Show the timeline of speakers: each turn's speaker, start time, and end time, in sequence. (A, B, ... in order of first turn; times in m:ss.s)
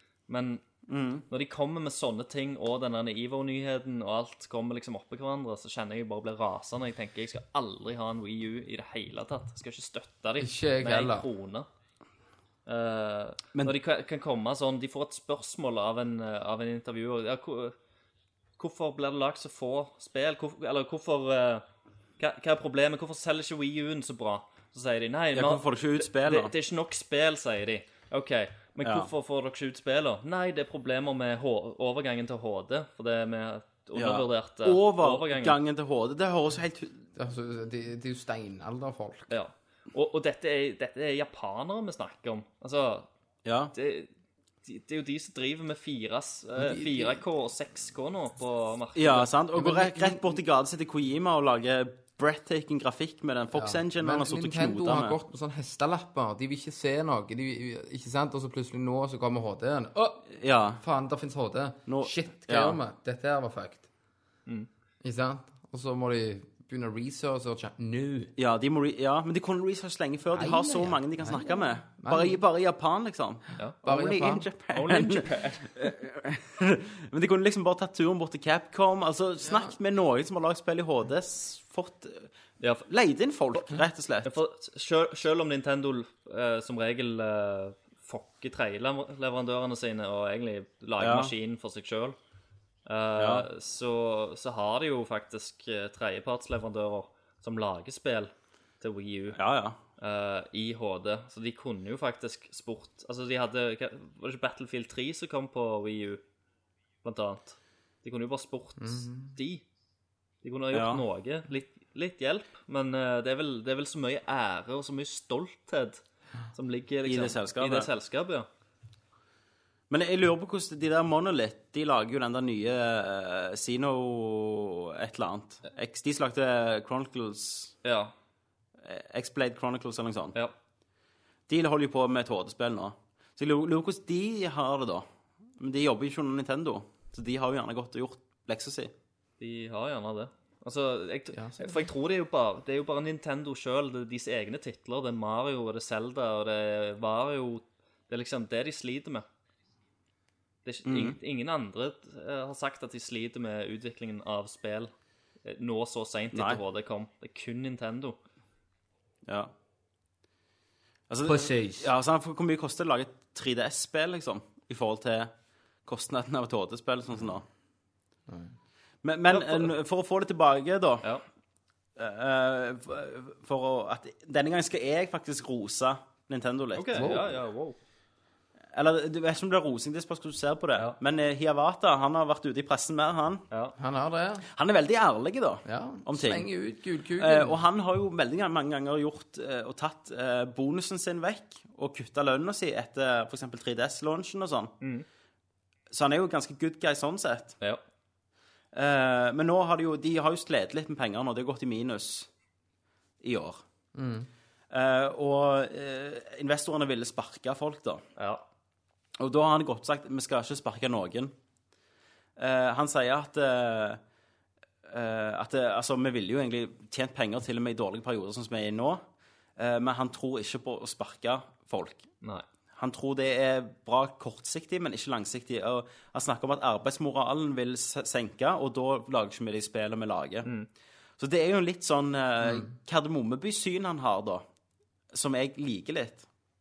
0:00.3-0:00.6 A
0:00.9-0:01.2 B
0:01.3-0:11.7 A
0:10.4-0:11.3 C
0:12.6-0:17.7 A
0:18.6-0:21.6 A
0:22.2-0:35.6 A
0:25.3-0:26.5 B
0:28.8-0:29.1 B
0:33.9-0:37.0 B
0:37.2-0:39.3 C
0:39.3-0:43.1 A
0:43.4-0:43.7 B
0:43.7-0:44.1 A
0:44.6-0:49.3 A
0:46.6-0:47.2 C
0:48.9-0:55.2 B
0:49.6-0:50.3 C
0:53.5-1:03.9 C
1:00.3-1:00.8 B
1:01.9-1:02.8 B
1:05.0-1:08.3 C
1:08.4-1:22.3 B
1:10.3-1:12.4 C
1:13.8-1:14.5 C
1:14.7-1:15.8 A
1:22.6-1:22.8 A
1:22.9-1:24.3 B
1:24.2-1:32.2 A
1:31.0-1:31.3 B
1:32.8-1:39.4 A
1:33.2-1:33.5 B
1:39.3-1:39.8 B
1:40.0-1:46.2 A
1:47.0-1:49.6 A
1:48.8-1:49.3 C
1:50.4-1:56.0 A
1:50.7-1:51.0 B
1:56.5-1:58.5 A
1:57.0-1:57.9 B
1:59.9-2:07.7 B
2:07.8-2:08.1 A
2:08.8-2:10.3 B
2:11.5-2:15.0 B
2:15.6-2:18.9 B
2:19.4-2:29.2 A
2:21.3-2:21.8 C
2:30.6-2:34.9 A
2:30.8-2:31.2 B
2:35.4-2:38.2 A
2:36.3-2:36.6 B
2:39.3-2:39.5 B
2:41.1-2:45.3 B
2:41.2-2:41.9 C
2:45.8-2:47.4 B
2:48.3-2:48.5 C
2:49.0-2:51.1 B
2:49.3-2:49.7 A
2:52.0-2:57.2 B
2:56.7-2:57.8 A
2:56.9-2:57.3 C
2:58.7-3:03.4 B
3:03.8-3:04.5 C
3:04.5-3:06.5 B
3:05.6-3:07.6 C
3:07.2-3:14.7 B
3:14.8-3:15.0 A
3:15.9-3:17.6 B
3:18.7-3:22.3 B
3:23.2-3:23.6 B
3:23.9-3:24.3 C
3:24.7-3:28.0 B
3:28.2-3:28.4 A
3:29.2-3:31.3 B
3:32.4-3:34.0 B
3:34.9-3:39.0 B
3:39.6-3:42.1 B
3:42.7-3:50.5 B
3:51.2-3:54.4 B
3:55.1-3:56.2 B